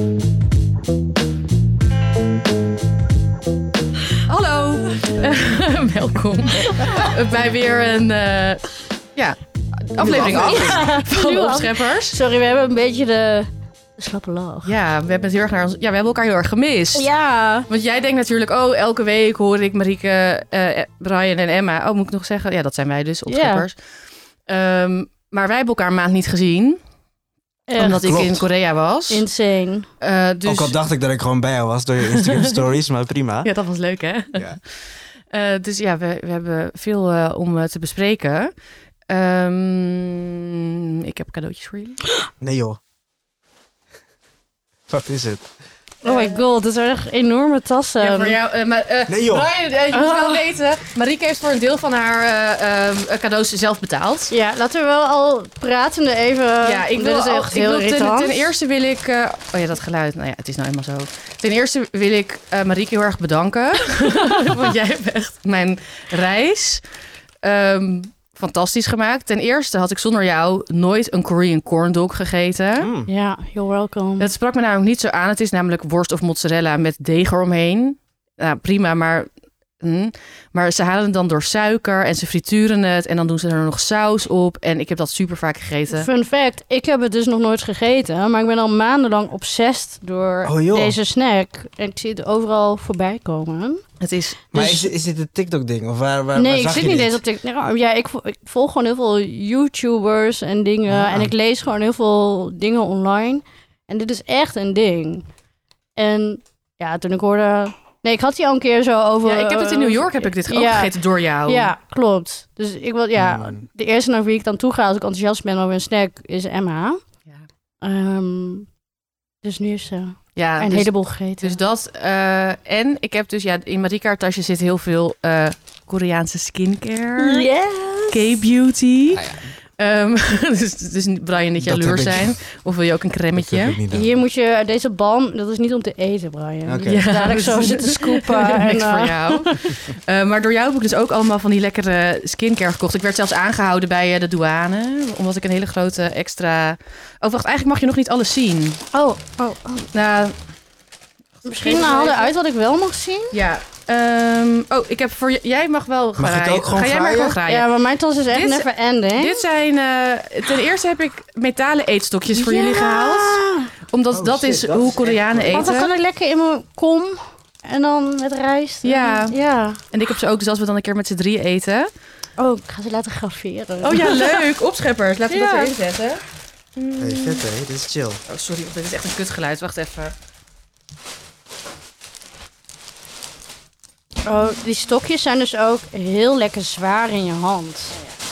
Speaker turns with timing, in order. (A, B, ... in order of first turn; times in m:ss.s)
0:04.2-0:12.2 A
0:10.0-0:10.8 B
0:10.1-0:14.7 C
0:14.6-0:17.1 A
0:16.9-0:17.7 C
0:17.7-0:23.8 A
0:23.3-0:23.7 C
0:24.5-0:26.8 A
0:27.7-0:28.2 C
0:27.8-0:29.2 A
0:28.0-0:28.4 B
0:29.1-0:29.9 C
0:30.0-0:30.7 A
0:30.4-0:33.5 B
0:32.1-0:32.6 A
0:33.4-0:34.8 A
0:35.3-0:38.5 A
0:39.1-0:42.0 A
0:42.4-0:42.8 B
0:44.9-0:45.5 B
0:46.0-0:46.4 A
0:46.0-0:48.4 C
0:48.0-0:54.3 A
0:49.1-0:49.5 B
0:49.9-0:50.4 C
0:54.3-0:58.5 C
0:56.6-1:06.8 A
1:07.4-1:12.9 A
1:12.8-1:13.1 B
1:13.1-1:14.3 C
1:14.2-1:19.3 A
1:19.8-1:26.1 A
1:25.9-1:33.8 C
1:30.4-1:31.0 B
1:34.0-1:34.8 A
1:34.5-1:37.2 B
1:36.3-1:45.3 C
1:40.9-1:41.3 B
1:46.0-1:57.0 C
1:49.2-1:51.7 A
1:53.2-1:53.6 B
1:57.8-1:58.7 C
1:59.4-2:01.6 C
2:00.4-2:07.5 A
2:07.2-2:08.3 C
2:08.1-2:13.8 A
2:09.1-2:09.5 B
2:11.6-2:12.4 B
2:13.3-2:14.1 B
2:13.9-2:19.8 C
2:16.6-2:17.1 B
2:16.8-2:28.8 A
2:28.9-2:29.9 C
2:29.9-2:30.4 A
2:31.4-2:33.4 C
2:31.5-2:32.3 A
2:33.3-2:37.7 A
2:36.2-2:37.4 B
2:37.4-2:39.4 C
2:38.3-2:43.4 A
2:42.3-2:43.7 C
2:43.9-2:45.9 A
2:44.1-2:45.8 B
2:45.5-2:49.8 C
2:48.8-2:49.4 A
2:49.9-2:51.9 A
2:52.4-2:54.4 C
2:53.8-2:56.2 A
2:55.3-2:55.7 C
2:56.8-2:57.4 C
2:57.0-2:58.2 B
2:58.3-3:00.1 A
3:04.2-3:08.0 C